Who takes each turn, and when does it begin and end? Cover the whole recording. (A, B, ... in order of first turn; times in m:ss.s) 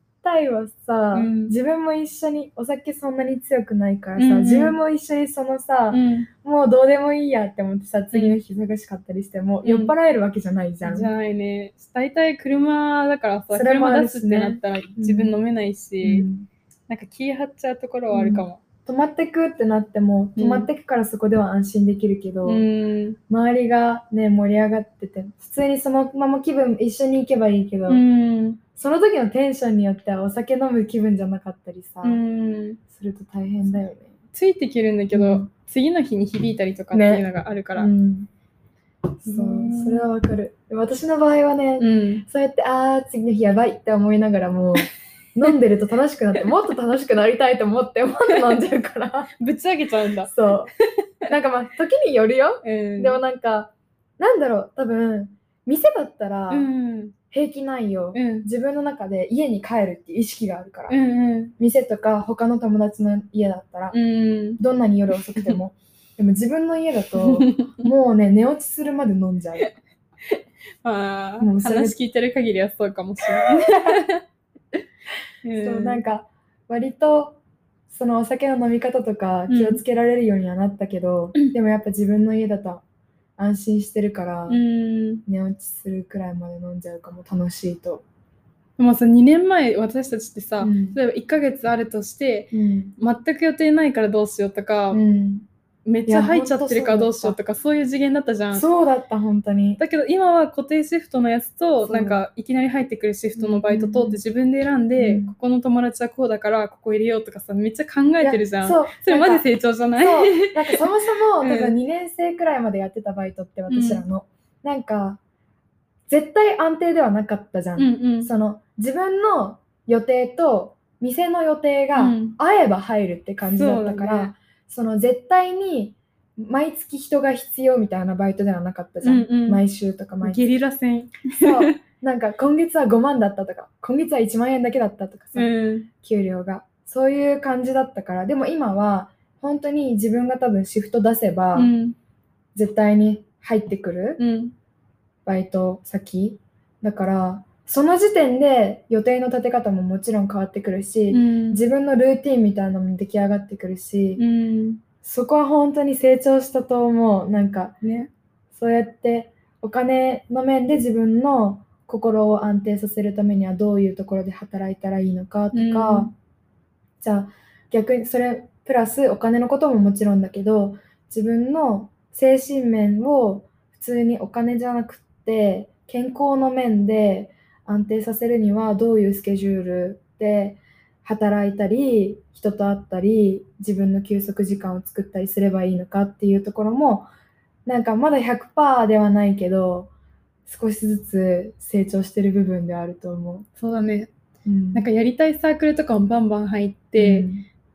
0:00.2-0:11.1 A
0:01.1-0:01.5 B
0:04.2-0:04.8 B
0:05.9-0:06.3 B
0:08.1-0:08.4 B
0:09.6-0:09.9 B
0:10.8-0:16.3 B
0:13.5-0:15.4 A
0:16.0-0:16.5 A
0:16.9-0:18.6 B
0:18.1-0:22.6 A
0:20.4-0:20.7 B
0:22.4-0:23.2 B
0:23.3-0:28.0 A
0:27.9-0:28.6 B
0:28.8-0:32.2 A
0:32.0-0:32.8 B
0:32.9-0:34.1 A
0:34.3-0:37.9 B
0:35.1-0:35.5 A
0:36.9-0:37.2 A
0:37.8-0:38.3 A
0:39.2-0:49.3 A
0:39.2-0:40.0 B
0:41.8-0:42.3 B
0:49.4-0:50.3 B
0:50.3-0:50.7 A
0:51.3-0:56.7 A
0:52.6-0:53.2 B
0:56.5-0:57.2 B
0:57.3-1:01.0 A
0:58.1-0:58.5 B
1:00.9-1:01.5 B
1:01.6-1:04.0 A
1:03.9-1:04.6 B
1:04.6-1:09.7 A
1:07.2-1:07.9 B
1:10.3-1:14.2 B
1:11.4-1:12.0 A
1:15.4-1:16.0 B
1:15.6-1:22.8 A
1:19.5-1:19.8 B
1:23.4-1:24.6 A
1:24.5-1:25.2 B
1:25.2-1:28.0 A
1:28.8-1:35.0 B
1:30.6-1:31.0 A
1:32.5-1:33.0 A
1:34.9-1:35.5 A
1:35.9-1:38.6 B
1:36.1-1:37.4 A
1:38.5-1:39.8 A
1:39.8-1:51.7 B
1:41.8-1:42.2 A
1:43.4-1:44.2 A
1:45.0-1:45.4 A
1:48.2-1:49.4 A
1:50.0-1:55.2 A
1:53.7-1:54.0 B
1:56.1-2:10.4 A
1:57.8-1:58.3 B
2:02.0-2:02.4 B
2:03.6-2:04.4 B
2:09.0-2:09.6 B
2:10.2-2:11.8 B
2:11.4-2:21.7 A
2:15.4-2:15.9 B
2:21.6-2:22.0 B
2:22.6-2:24.2 A
2:24.2-2:24.6 B
2:25.3-2:34.2 A
2:31.1-2:31.6 B
2:34.2-2:34.8 B
2:35.0-2:37.8 A
2:37.8-2:38.1 B
2:38.5-2:46.1 A
2:45.5-2:46.1 B
2:47.0-3:07.1 A
3:07.7-3:09.9 A
3:10.5-3:13.5 A
3:13.6-3:14.1 B
3:14.5-3:14.9 A
3:14.7-3:17.3 B
3:17.0-3:17.5 A